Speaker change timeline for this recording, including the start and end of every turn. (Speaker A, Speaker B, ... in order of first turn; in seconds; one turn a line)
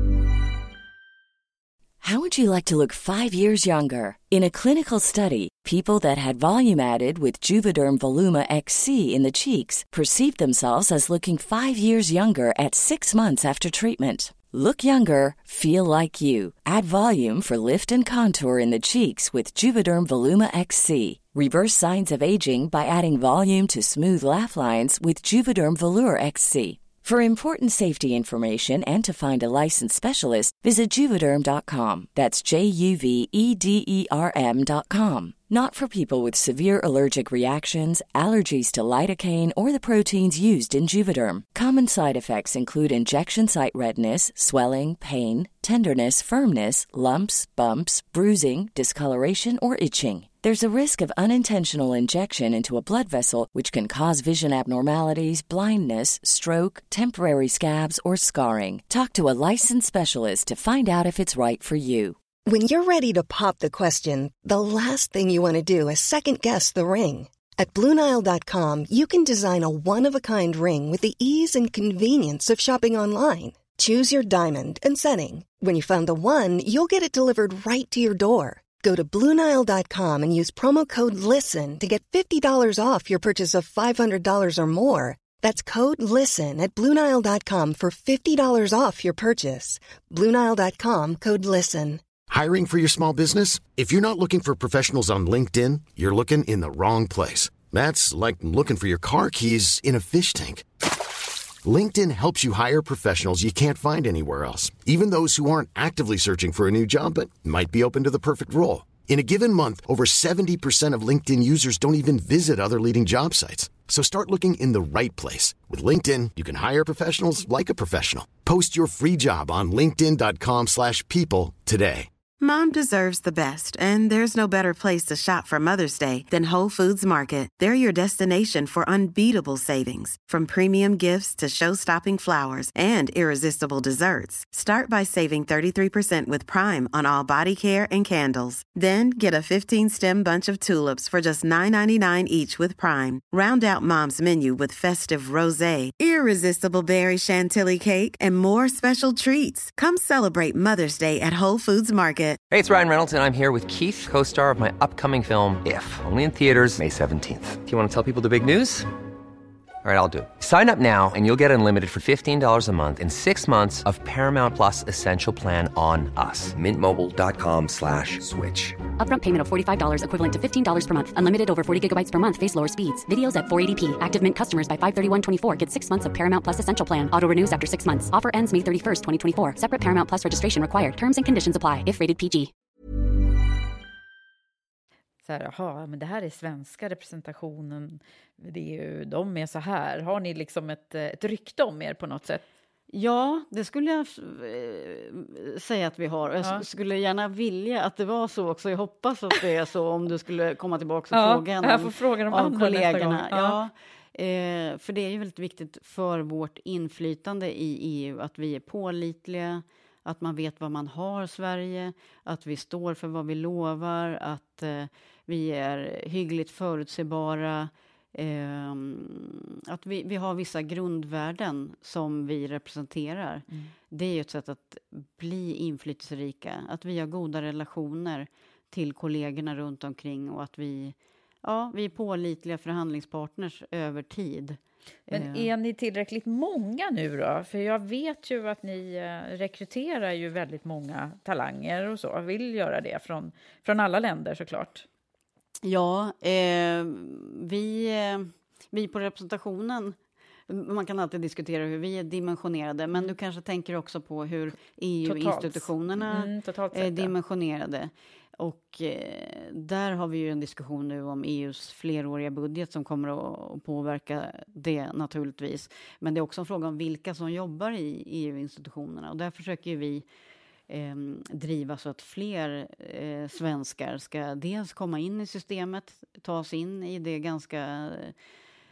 Speaker A: 2.0-62.2
Speaker B: 62.5-92.0
Speaker C: 92.3-100.7
Speaker C: 101.6-122.1
Speaker D: 122.4-152.4
Speaker E: 152.5-158.9
Speaker E: 159.8-168.8
Speaker F: 169.0-182.5
Speaker G: 185.2-192.4
Speaker H: 192.9-235.5
Speaker G: 201.1-203.6
Speaker G: 235.1-244.9
Speaker H: 245.6-270.1
Speaker G: 255.0-257.1
Speaker H: 270.7-278.2